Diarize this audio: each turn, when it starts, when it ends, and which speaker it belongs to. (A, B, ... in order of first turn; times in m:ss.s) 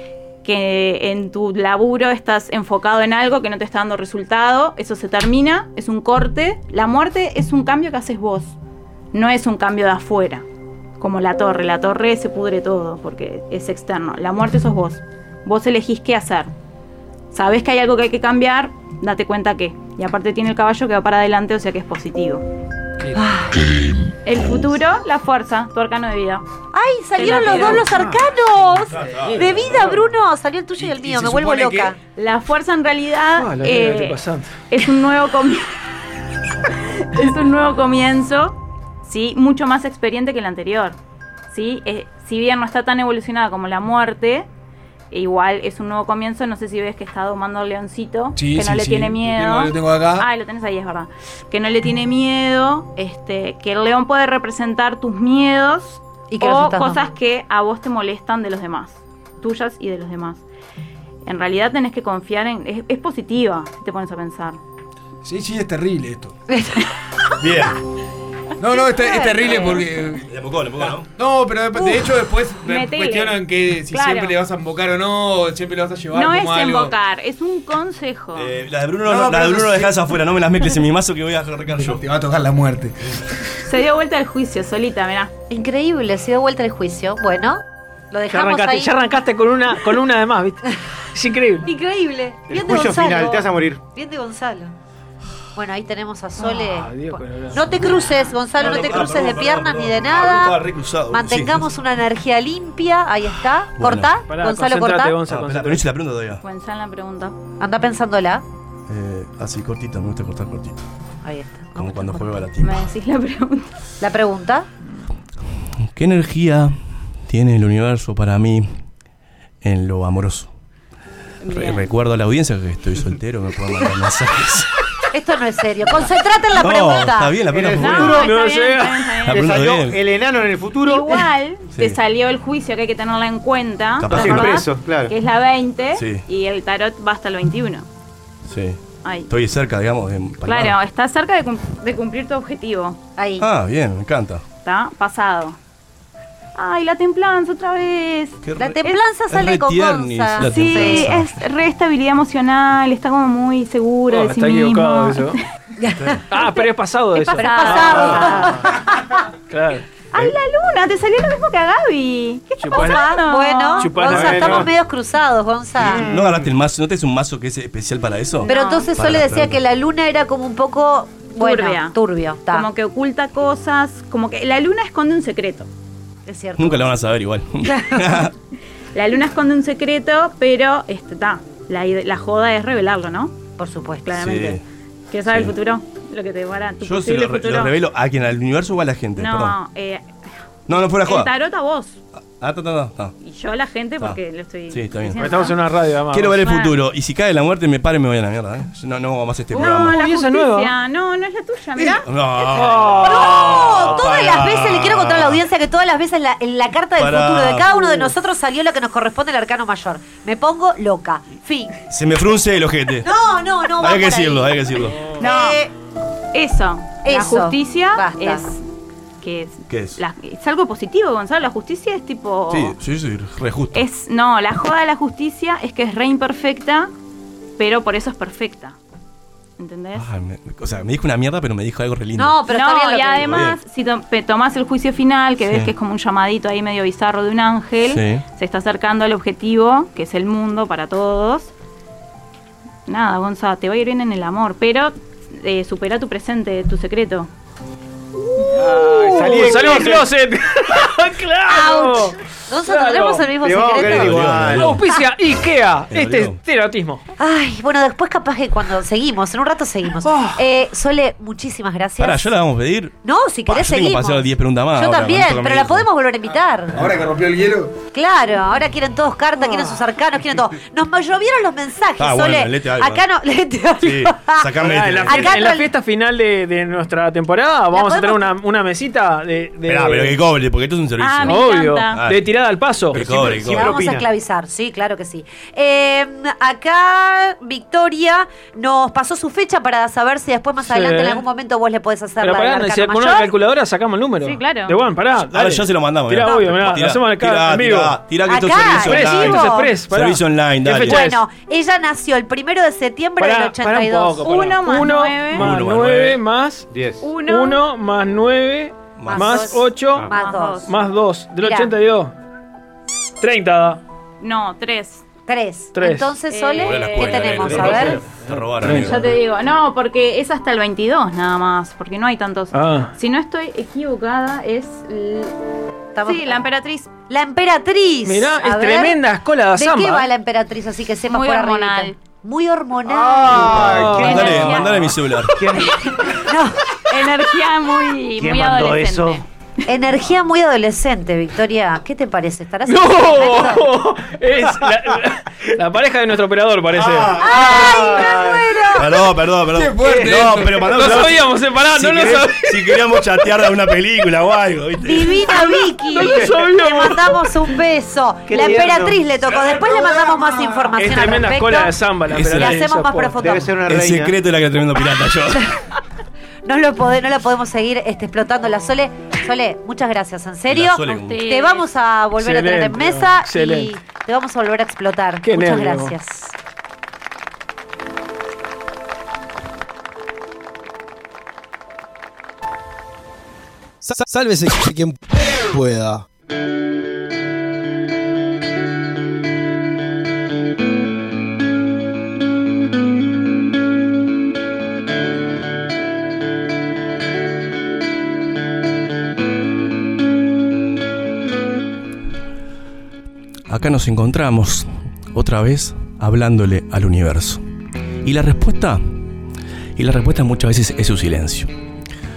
0:00.4-0:08.6 A
0:09.1-0:10.4 A
0:11.0-0:16.5 A
0:17.3-0:22.4 A
0:23.2-0:23.6 B
0:24.2-0:26.4 A
0:26.7-0:32.0 B
0:27.2-0:28.1 A
0:27.2-0:28.2 C
0:28.9-0:30.0 D
0:30.8-0:32.0 E
0:32.2-0:35.7 A
0:33.4-0:34.6 C
0:36.9-0:41.0 A
0:41.5-0:44.5 A
0:45.1-1:00.4 A
0:48.4-0:50.3 E
0:56.3-0:57.1 B
1:01.2-1:04.6 A
1:05.2-1:06.3 E
1:06.5-1:06.8 B
1:07.4-1:07.8 D
1:08.6-1:10.2 E
1:08.8-1:09.6 B
1:09.6-1:09.8 A
1:10.3-1:11.1 D
1:10.8-1:17.0 E
1:12.6-1:14.4 A
1:16.1-1:18.5 A
1:18.4-1:22.0 D
1:19.1-1:20.0 E
1:21.8-1:23.0 E
1:23.6-1:25.3 A
1:25.5-1:28.9 B
1:28.3-1:30.6 C
1:31.1-1:31.7 C
1:31.6-1:34.7 B
1:32.5-1:33.8 F
1:35.6-1:40.6 B
1:36.4-1:38.0 C
1:38.6-1:41.7 D
1:41.1-1:45.2 B
1:43.8-1:44.2 D
1:44.3-1:45.9 C
1:45.3-1:46.4 D
1:46.4-1:47.4 A
1:47.6-1:48.4 B
1:48.9-1:50.8 D
1:51.2-1:52.3 B
1:51.8-1:52.9 D
1:52.6-1:53.7 A
1:54.0-1:54.7 B
1:55.9-1:58.8 D
1:59.6-2:00.5 D
2:01.4-2:01.8 A
2:01.5-2:04.7 D
2:05.1-2:07.3 B
2:06.5-2:08.3 D
2:07.5-2:08.3 F
2:07.8-2:09.4 A
2:08.0-2:09.2 C
2:09.2-2:10.0 D
2:09.3-2:11.3 F
2:10.8-2:17.9 A
2:14.0-2:14.6 D
2:14.1-2:15.1 F
2:15.9-2:16.2 D
2:18.5-2:20.8 D
2:19.0-2:19.3 A
2:20.4-2:23.0 A
2:23.2-2:23.5 B
2:23.4-2:24.4 D
2:24.6-2:25.6 A
2:26.6-2:29.0 A
2:28.4-2:31.4 D
2:28.6-2:31.1 B
2:30.4-2:35.4 A
2:34.1-2:35.4 C
2:35.8-2:36.6 B
2:36.0-2:36.3 D
2:36.3-2:38.8 C
2:37.2-2:38.8 A
2:37.3-2:38.8 B
2:39.5-2:39.8 C
2:40.1-2:44.6 A
2:42.6-2:43.2 C
2:42.7-2:46.0 B
2:43.8-2:44.7 C
2:44.1-2:44.7 F
2:45.8-2:46.5 F
2:45.8-2:49.6 D
2:48.4-2:48.9 A
2:48.5-2:52.7 B
2:51.4-2:55.7 A
2:56.3-2:56.9 B
2:56.6-2:58.3 D
2:57.7-2:58.2 B
2:58.9-3:03.4 A
3:03.6-3:04.2 B
3:04.0-3:04.6 A
3:04.1-3:04.6 D
3:05.1-3:07.7 A
3:05.2-3:05.6 D
3:06.8-3:09.6 D
3:09.2-3:10.2 A
3:10.7-3:11.3 D
3:11.0-3:12.0 A
3:12.2-3:13.2 D
3:13.2-3:15.6 A
3:14.7-3:15.5 D
3:15.2-3:16.5 C
3:16.1-3:20.0 D
3:16.4-3:16.7 A
3:19.5-3:22.1 A
3:19.5-3:20.8 C
3:21.8-3:25.4 D
3:22.5-3:24.0 C
3:23.0-3:31.7 B
3:27.0-3:27.8 D
3:31.9-3:33.1 D
3:33.0-3:35.7 B
3:33.8-3:35.1 D
3:35.2-3:35.6 A
3:36.3-3:38.6 A
3:37.0-3:38.5 B
3:39.2-3:42.8 A
3:39.7-3:40.0 D
3:42.5-3:43.9 D
3:43.7-3:46.9 A
3:47.6-3:48.8 A
3:49.6-3:50.1 A
3:50.0-3:52.4 D
3:52.2-3:53.4 B
3:52.5-4:01.5 A
3:53.2-3:53.6 D
3:55.4-3:55.7 D
3:57.8-3:58.2 D
4:02.9-4:07.3 A
4:08.4-4:13.3 C
4:08.5-4:10.1 F
4:11.5-4:14.4 B
4:13.4-4:14.8 F
4:13.8-4:14.8 D
4:14.6-4:17.0 C
4:15.9-4:16.4 D
4:17.2-4:22.3 B
4:22.0-4:25.9 D
4:23.0-4:26.8 B
4:26.8-4:27.8 E
4:27.9-4:34.5 B
4:32.0-4:33.0 D
4:33.8-4:35.5 D
4:34.6-4:40.2 C
4:35.0-4:35.7 B
4:37.7-4:38.2 B
4:39.7-4:42.2 D
4:41.0-4:42.0 A
4:41.2-4:43.2 C
4:42.9-4:43.8 D
4:43.1-4:44.1 F
4:43.2-4:53.4 B
4:50.7-4:51.2 C
4:52.2-4:58.0 C
4:54.2-4:54.8 A
4:55.3-5:01.0 D
4:58.3-4:59.7 B
4:58.7-5:01.2 C
5:00.9-5:04.3 B
5:03.2-5:06.7 C
5:04.2-5:05.5 A
5:05.3-5:06.2 D
5:06.7-5:07.1 F
5:07.0-5:07.6 A
5:07.2-5:12.1 C
5:09.0-5:09.6 D
5:09.1-5:10.7 B
5:10.1-5:10.7 A
5:11.4-5:11.7 B
5:13.2-5:13.8 C
5:14.2-5:15.0 A
5:15.3-5:18.0 B
5:15.8-5:16.2 C
5:16.3-5:17.7 A
5:16.5-5:19.2 D
5:17.5-5:18.0 C
5:18.6-5:19.2 C
5:18.8-5:25.3 A
5:22.5-5:22.9 C
5:26.0-5:26.4 B
5:26.0-5:26.9 A
5:27.1-5:29.0 B
5:28.0-5:30.1 C
5:29.6-5:33.6 B
5:31.1-5:32.0 A
5:32.9-5:36.0 F
5:33.4-5:35.5 D
5:33.6-5:34.6 C
5:34.0-5:34.9 A
5:36.1-5:36.7 B
5:36.9-5:39.2 A
5:38.2-5:39.2 F
5:39.7-5:43.6 B
5:42.6-5:47.2 C
5:46.8-5:55.3 D
5:47.2-5:48.9 B
5:47.4-5:48.5 F
5:49.5-5:51.1 E
5:49.8-5:50.2 F
5:50.7-5:53.0 C
5:54.8-6:01.8 B
5:55.2-5:57.3 C
5:56.0-5:56.3 F
5:58.3-5:59.0 F
6:00.8-6:03.3 C
6:02.1-6:02.7 D
6:02.3-6:03.5 B
6:03.2-6:04.2 F
6:03.7-6:05.5 D
6:06.4-6:16.3 B
6:10.5-6:11.2 D
6:10.9-6:11.7 A
6:12.2-6:13.8 C
6:15.2-6:16.0 C
6:23.8-6:26.1 G
6:43.5-6:47.4 D
6:48.0-6:48.8 D
6:49.8-6:51.5 D